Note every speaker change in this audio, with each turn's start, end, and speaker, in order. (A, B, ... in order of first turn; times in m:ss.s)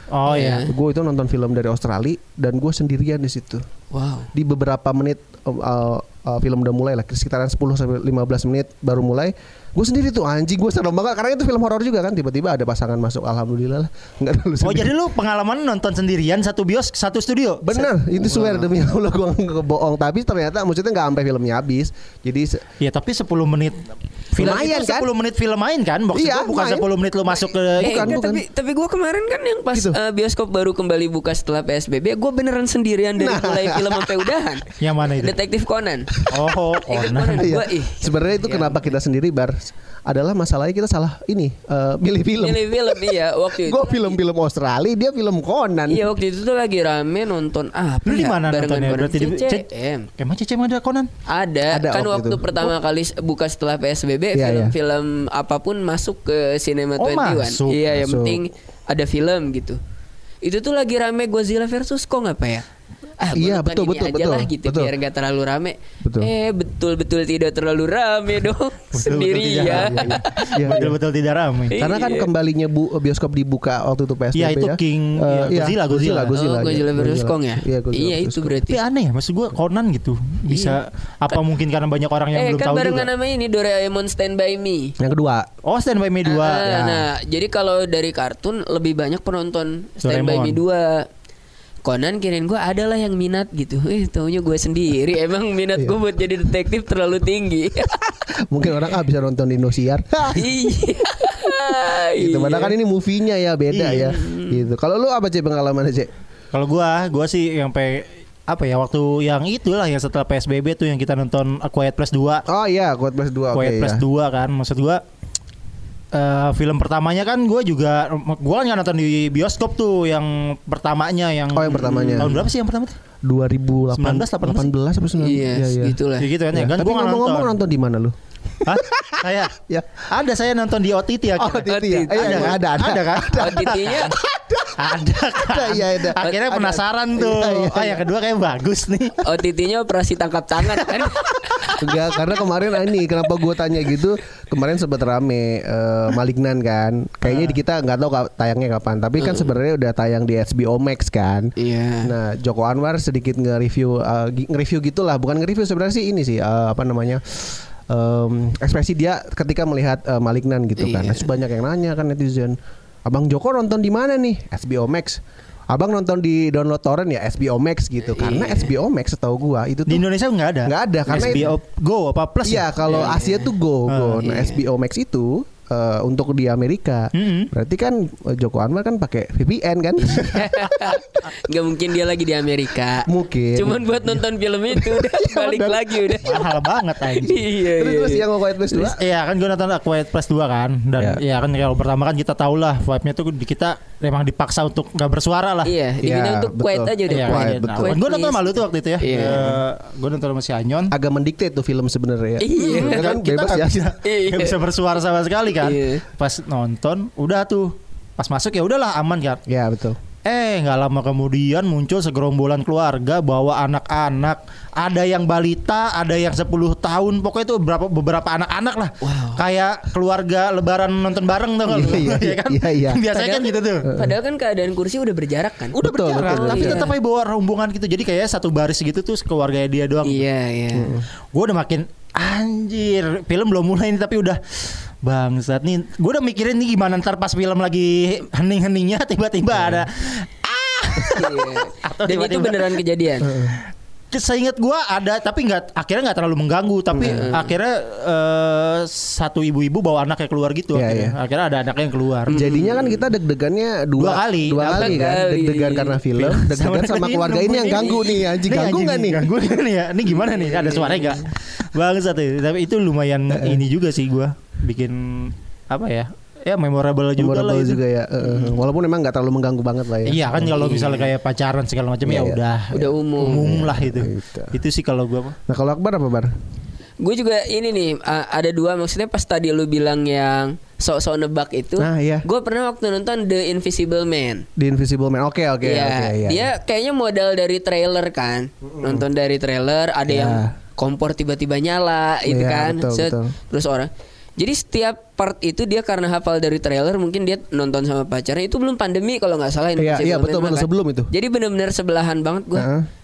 0:00.1-0:00.7 A
0:00.3-0:00.7 B
0:00.3-0:03.6 C
0:03.9-0:04.3 B
0:04.3-0:14.9 C
0:14.6-0:17.9 A
0:17.6-0:22.6 C
0:22.8-0:28.1 A
0:24.4-0:25.1 C
0:26.1-0:26.9 C
0:27.8-0:28.4 C
0:27.8-0:36.2 B
0:33.2-0:34.3 C
0:34.8-0:35.3 A
0:36.3-0:37.6 A
0:36.8-0:38.9 B
0:37.3-0:46.0 C
0:42.4-0:44.2 B
0:45.9-0:50.1 B
0:48.0-0:49.6 A
0:50.2-0:51.1 A
0:51.3-0:59.8 B
0:51.7-0:52.7 C
0:54.3-0:54.7 C
0:57.0-0:57.8 A
0:57.9-0:58.4 C
1:00.4-1:02.6 B
1:03.2-1:10.5 B
1:03.3-1:04.9 C
1:06.0-1:06.3 C
1:08.9-1:11.8 A
1:09.6-1:11.0 C
1:11.7-1:12.3 B
1:11.8-1:18.6 C
1:14.3-1:16.3 A
1:16.3-1:18.8 B
1:18.7-1:23.1 A
1:20.5-1:20.8 B
1:22.3-1:24.9 B
1:25.0-1:25.5 C
1:25.6-1:26.8 A
1:26.2-1:31.1 B
1:26.6-1:27.0 C
1:30.0-1:30.6 A
1:31.8-1:38.0 B
1:38.5-1:40.4 C
1:40.3-1:42.7 B
1:42.2-1:46.1 C
1:43.8-1:44.6 B
1:46.5-1:52.4 A
1:52.5-1:54.0 C
1:53.5-1:55.0 A
1:56.1-2:03.0 A
2:01.5-2:02.4 C
2:01.8-2:02.4 B
2:03.2-2:06.0 C
2:03.9-2:04.7 A
2:05.2-2:06.2 B
2:06.2-2:07.6 A
2:06.5-2:10.0 C
2:08.6-2:09.6 A
2:10.1-2:19.3 A
2:11.4-2:14.8 C
2:11.6-2:12.6 B
2:13.3-2:14.1 B
2:15.4-2:18.0 C
2:19.2-2:22.1 B
2:20.9-2:21.7 A
2:21.8-2:31.5 C
2:29.2-2:29.5 B
2:31.6-2:32.1 B
2:32.0-2:50.0 C
2:40.8-2:41.3 B
2:48.0-2:48.7 B
2:49.9-2:53.1 A
2:50.6-2:51.5 C
2:51.1-2:51.4 B
2:52.4-3:00.9 C
2:52.9-2:53.5 B
2:53.9-2:54.2 A
2:54.2-2:54.6 B
2:57.1-2:57.5 A
3:00.0-3:06.4 B
3:03.1-3:04.2 C
3:04.7-3:06.2 C
3:06.2-3:07.4 A
3:07.2-3:08.2 B
3:07.6-3:09.0 C
3:08.8-3:15.7 A
3:15.6-3:19.5 B
3:16.0-3:18.0 C
3:17.1-3:20.9 A
3:20.9-3:23.9 C
3:22.4-3:23.0 B
3:22.6-3:29.4 A
3:24.0-3:24.6 B
3:25.6-3:26.0 B
3:29.5-3:30.0 C
3:30.2-3:43.9 A
3:39.0-3:39.4 B
3:41.7-3:43.0 C
3:43.1-3:46.9 B
3:43.8-3:44.1 C
3:45.8-3:46.9 C
3:45.8-3:50.2 A
3:50.0-3:50.9 B
3:50.7-3:51.0 C
3:51.3-4:02.8 A
3:59.6-3:59.8 C
4:01.1-4:03.3 B
4:03.2-4:03.6 C
4:04.1-4:12.4 A
4:06.9-4:07.3 C
4:07.0-4:07.5 B
4:10.7-4:11.1 C
4:12.3-4:13.0 B
4:12.3-4:19.3 C
4:14.0-4:15.1 A
4:14.6-4:16.0 B
4:16.1-4:27.8 A
4:20.2-4:21.3 B
4:23.3-4:23.6 C
4:27.2-4:30.8 C
4:30.0-4:35.4 A
4:30.6-4:31.1 B
4:32.0-4:32.4 C
4:32.7-4:33.5 B
4:33.2-4:34.5 C
4:35.5-4:36.3 C
4:37.0-4:44.4 B
4:41.8-4:42.2 C
4:44.6-4:46.5 C
4:45.6-5:02.7 B
4:48.6-4:49.0 C
4:50.1-4:50.6 C
4:52.2-4:53.3 C
4:59.8-5:01.1 C
5:02.5-5:02.9 C